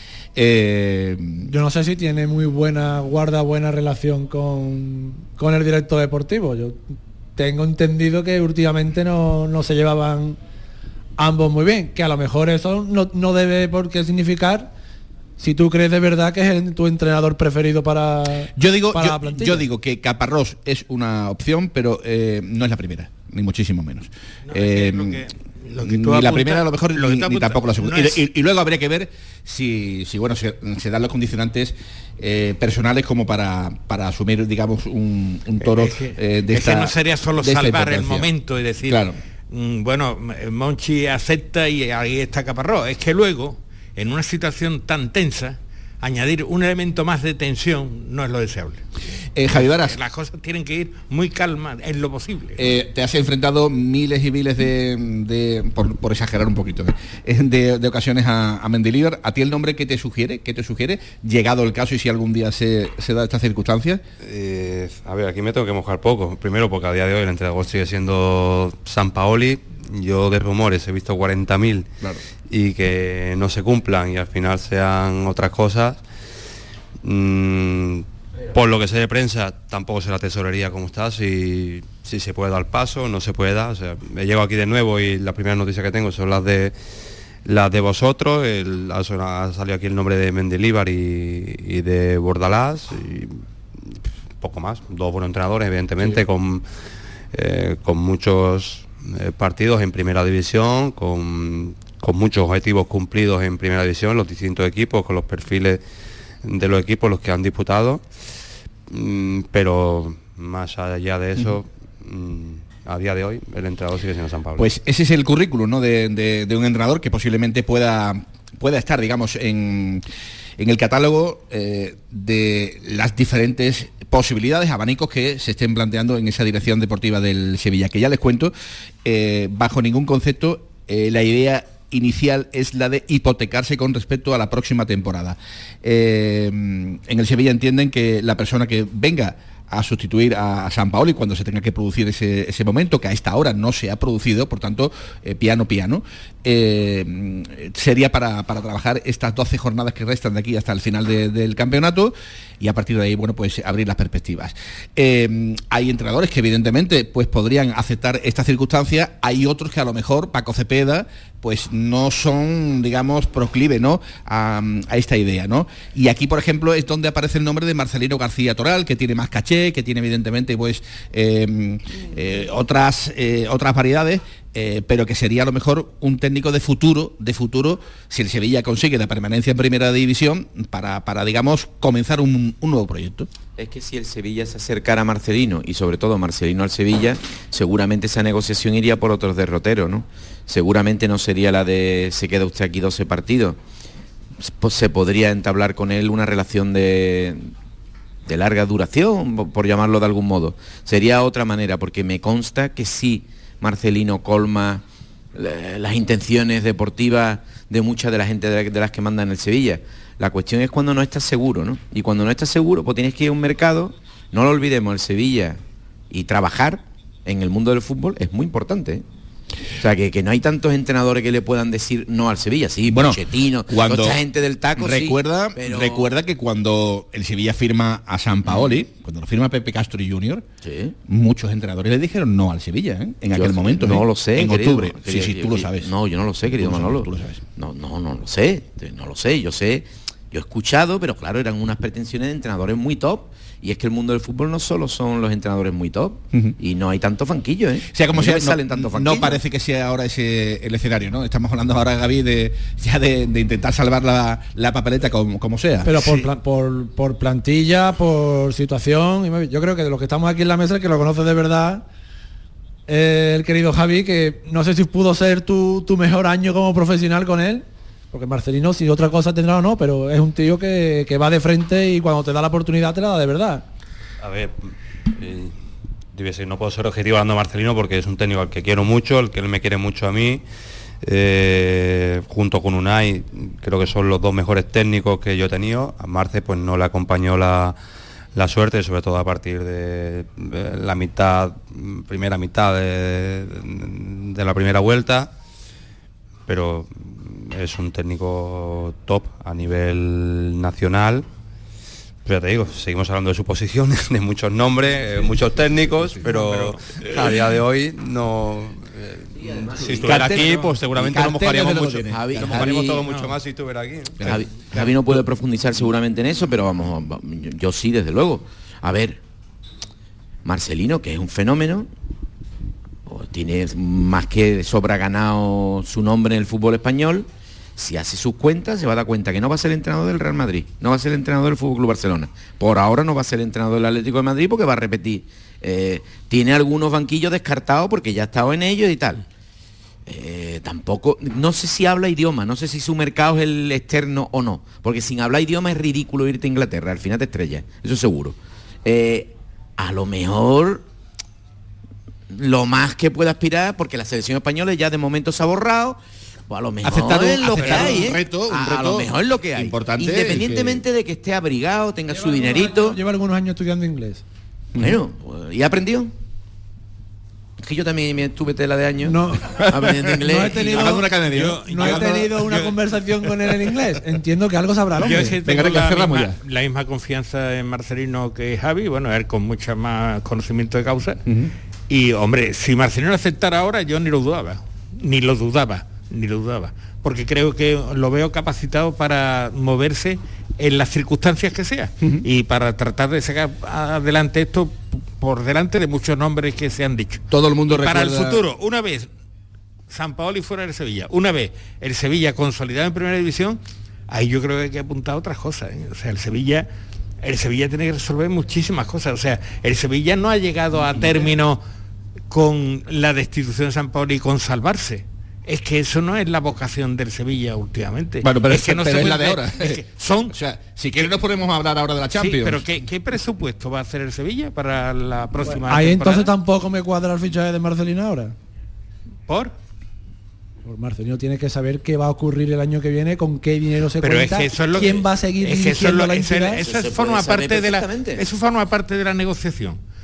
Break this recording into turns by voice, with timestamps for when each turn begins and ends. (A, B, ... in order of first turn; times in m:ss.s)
0:00.3-0:01.5 A
0:01.5-0:06.8 B
0:07.4-0:10.4 B
0:11.2-0:14.7 B
0:15.4-0:19.6 B
0:18.6-0:25.2 A
0:24.5-0:28.2 C
0:25.8-0:38.3 A
0:35.6-0:48.8 C
0:38.8-0:39.1 A
0:49.4-0:50.0 A
0:49.5-0:52.7 C
0:52.6-1:04.0 A
1:04.2-1:11.9 D
1:12.5-1:16.0 D
1:17.0-1:26.7 D
1:27.4-1:36.6 D
1:37.3-1:45.8 D
1:46.4-1:48.0 D
1:48.9-1:54.7 D
1:54.6-2:00.0 A
2:00.6-2:08.5 A
2:09.0-3:03.3 A
3:03.6-3:13.6 E
3:14.4-3:17.5 E
3:18.2-3:24.8 E
3:25.3-3:39.0 E
3:39.8-3:46.1 E
3:42.9-3:44.2 A
3:44.8-3:50.4 A
3:50.6-3:50.9 E
3:51.1-3:55.9 A
3:53.3-4:09.4 E
3:56.6-3:57.4 A
4:07.9-4:15.9 A
4:15.8-4:21.8 B
4:22.9-4:33.6 B
4:34.2-4:35.5 D
4:36.1-4:40.4 D
4:41.0-4:47.7 D
4:48.3-4:55.3 D
4:56.5-5:01.2 D
5:02.2-5:14.4 D
5:09.4-5:10.6 E
5:10.0-5:13.0 A
5:12.1-5:13.0 E
5:13.0-5:13.3 C
5:14.2-5:19.2 E
5:14.2-5:14.9 A
5:20.4-5:21.9 E
5:23.0-5:27.2 E
5:27.8-5:39.2 E
5:40.1-5:50.8 E
5:52.3-6:03.0 E
5:56.8-6:00.8 A
6:02.1-6:04.2 B
6:04.7-6:05.0 A
6:04.8-6:06.1 E
6:07.6-6:11.0 E
6:09.0-6:09.6 B
6:10.1-6:15.3 B
6:10.6-6:12.4 A
6:11.1-6:12.7 C
6:15.0-6:21.2 C
6:15.0-6:16.4 A
6:21.2-6:21.5 A
6:21.9-6:39.1 C
6:37.3-6:38.4 A
6:39.9-6:46.7 C
6:47.2-6:51.6 C
6:52.3-7:00.3 C
6:58.2-7:02.7 A
7:02.1-7:06.3 C
7:05.6-7:08.3 B
7:09.3-7:09.5 C
7:10.6-7:16.6 B
7:14.0-7:19.8 C
7:16.6-7:18.2 E